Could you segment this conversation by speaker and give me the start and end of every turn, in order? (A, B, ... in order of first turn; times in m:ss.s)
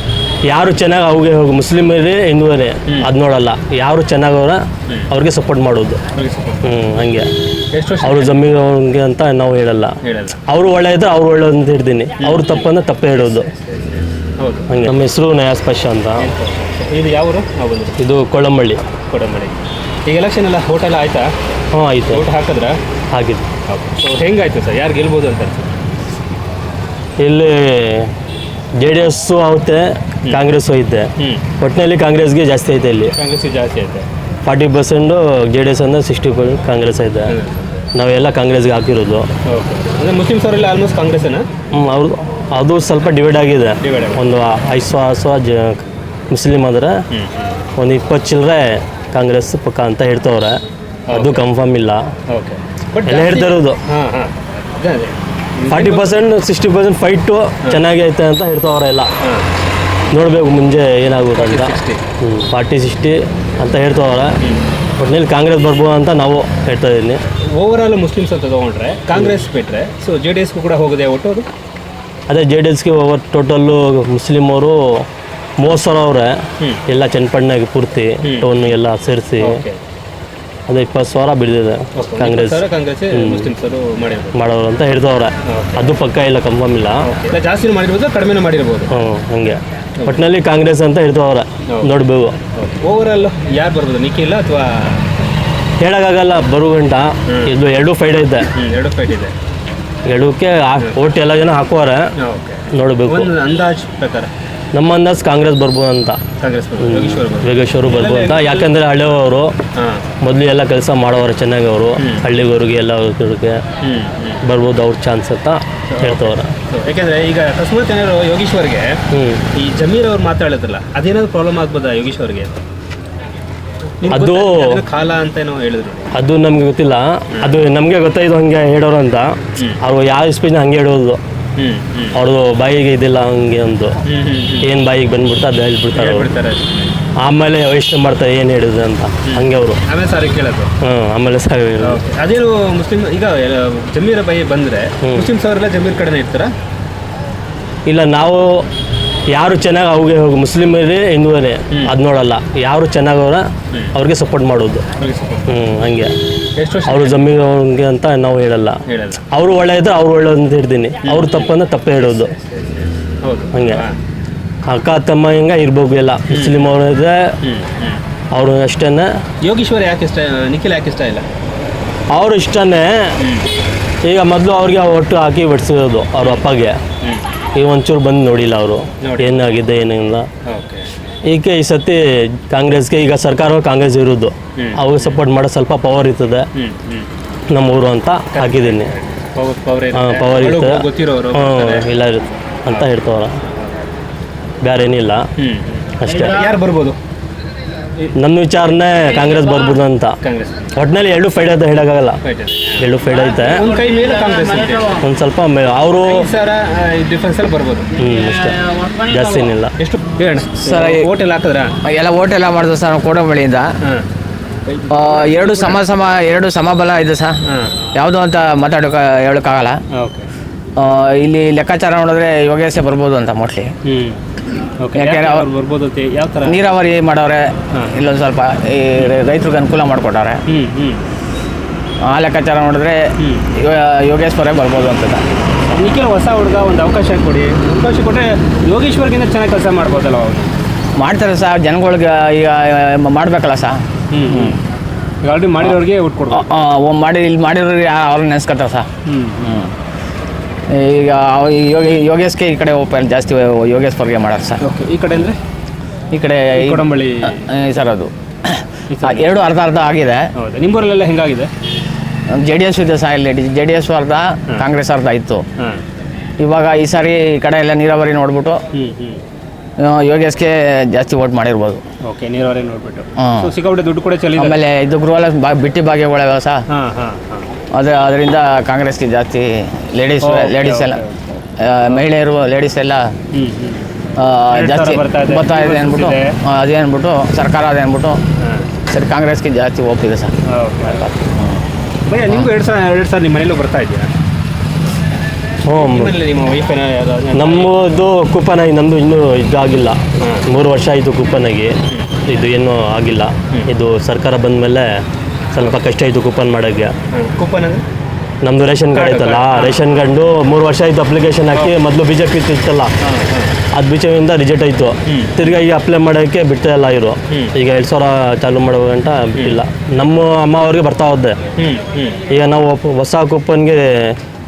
0:00.5-0:06.0 A
0:06.1-0:06.6 B
0:06.6-0:07.3 A
0:07.7-0:08.5 B
0:08.0-0:13.5 A
0:10.0-0:10.4 B
0:12.2-0:12.7 B
0:14.4-0:14.7 B
0:14.7-0:16.3 A
0:16.2-0:18.0 B
0:18.0-0:18.8 A
0:19.0-0:21.3 B
0:21.7-0:22.2 A
0:22.1-0:22.8 B
0:23.1-0:23.5 A
0:23.7-0:25.8 B
0:27.2-0:28.1 A
0:28.8-0:33.2 A
0:30.2-0:30.5 B
0:31.2-0:31.4 B
0:33.1-0:34.1 B
0:34.4-0:37.4 A
0:37.3-0:37.8 B
0:37.9-0:39.3 A
0:39.4-0:41.5 B
0:41.7-0:47.0 A
0:43.8-0:44.2 B
0:47.1-0:47.6 B
0:47.8-0:50.6 A
0:51.1-0:51.4 B
0:51.1-0:52.1 A
0:52.3-0:56.2 B
0:53.0-0:53.8 A
0:55.7-0:59.1 A
0:59.2-0:59.5 B
1:00.1-1:04.4 A
1:01.3-1:02.0 B
1:05.0-1:07.2 A
1:07.4-1:11.5 B
1:12.3-1:15.0 A
1:15.6-1:19.6 A
1:18.2-1:18.8 B
1:19.4-1:19.8 B
1:20.7-1:23.5 A
1:21.9-1:24.4 B
1:24.3-1:27.1 A
1:25.4-1:26.0 B
1:27.0-1:28.9 B
1:28.9-1:32.4 A
1:30.0-1:30.2 B
1:32.5-1:35.1 B
1:35.8-1:38.5 A
1:37.3-1:37.5 B
1:38.5-1:39.3 B
1:40.0-1:42.0 A
1:42.2-1:44.3 B
1:42.7-1:43.3 A
1:44.7-1:46.2 A
1:46.4-1:48.8 B
1:46.8-1:49.5 A
1:49.7-1:50.0 B
1:50.2-1:53.6 A
1:52.0-1:52.3 B
1:53.8-1:54.4 B
1:54.4-1:56.5 A
1:55.9-1:59.0 B
1:59.1-1:59.4 A
1:59.5-2:02.6 B
2:04.0-2:06.1 B
2:04.1-2:04.8 A
2:06.1-2:11.2 A
2:07.3-2:07.6 B
2:11.6-2:12.2 B
2:12.1-2:14.0 A
2:14.0-2:14.7 B
2:14.6-2:16.3 A
2:15.9-2:16.9 B
2:17.2-2:19.8 A
2:19.2-2:20.7 B
2:20.8-2:22.0 A
2:21.8-2:26.5 B
2:25.0-2:25.3 A
2:27.9-2:28.6 A
2:29.3-2:34.8 A
2:35.0-2:35.4 B
2:35.4-2:36.1 A
2:36.6-2:37.3 B
2:36.9-2:42.3 A
2:38.9-2:39.2 B
2:41.0-2:41.5 B
2:42.2-2:44.0 B
2:43.5-2:43.8 A
2:44.6-2:47.3 A
2:46.3-2:46.7 B
2:47.4-2:48.0 B
2:48.3-2:49.1 A
2:49.4-2:51.2 B
2:52.1-2:53.1 A
2:53.2-2:53.5 B
2:54.0-2:56.8 A
2:57.6-3:00.3 A
2:59.0-2:59.4 B
3:00.4-3:00.9 B
3:01.3-3:06.5 A
3:04.6-3:05.2 B
3:06.5-3:07.1 B
3:07.5-3:08.9 A
3:08.3-3:11.9 B
3:09.9-3:13.4 A
3:13.5-3:13.9 B
3:14.6-3:15.2 A
3:15.4-3:17.0 B
3:16.0-3:16.4 A
3:18.1-3:20.2 A
3:20.2-3:20.7 B
3:20.7-3:22.2 A
3:22.2-3:25.0 B
3:22.8-3:23.6 A
3:23.7-3:24.9 C
3:24.9-3:26.3 A
3:26.0-3:28.0 B
3:28.0-3:29.7 A
3:28.6-3:29.5 C
3:29.8-3:31.7 B
3:30.6-3:31.1 C
3:31.8-3:33.7 C
3:34.7-3:35.8 B
3:34.9-3:37.4 C
3:37.5-3:37.7 B
3:37.9-3:39.8 C
3:39.9-3:40.3 B
3:40.8-3:43.7 C
3:43.8-3:44.2 B
3:44.8-3:46.6 B
3:44.9-3:45.5 C
3:46.4-3:50.4 C
3:50.5-3:51.0 B
3:52.0-3:55.3 C
3:53.2-3:53.5 B
3:55.7-4:00.5 B
4:01.0-4:04.6 C
4:04.1-4:04.6 B
4:05.2-4:06.4 B
4:06.3-4:08.9 C
4:09.0-4:09.6 B
4:09.4-4:09.7 C
4:10.7-4:14.6 C
4:14.6-4:15.4 B
4:16.1-4:20.3 C
4:16.5-4:17.4 B
4:18.9-4:19.3 B
4:20.4-4:21.5 B
4:22.3-4:25.4 C
4:26.4-4:28.6 C
4:28.7-4:29.2 B
4:29.8-4:31.8 C
4:32.0-4:34.6 B
4:33.2-4:33.5 C
4:34.4-4:36.6 C
4:36.7-4:37.5 B
4:37.7-4:41.0 C
4:40.2-4:41.4 B
4:41.6-4:43.1 C
4:43.3-4:43.9 B
4:44.2-4:48.2 C
4:44.5-4:46.4 B
4:48.4-4:48.7 B
4:48.9-4:50.3 C
4:50.5-4:51.1 B
4:50.9-4:51.6 C
4:52.1-4:54.1 B
4:55.6-4:56.2 A
4:55.7-4:57.8 B
4:57.3-5:01.7 A
5:00.2-5:00.5 B
5:02.2-5:04.9 A
5:05.5-5:06.9 A
5:07.1-5:07.8 B
5:08.4-5:12.9 A
5:08.9-5:09.9 B
5:13.0-5:13.6 B
5:13.7-5:21.4 A
5:15.1-5:15.4 B
5:17.3-5:17.6 B
5:21.6-5:22.2 B
5:22.3-5:24.1 A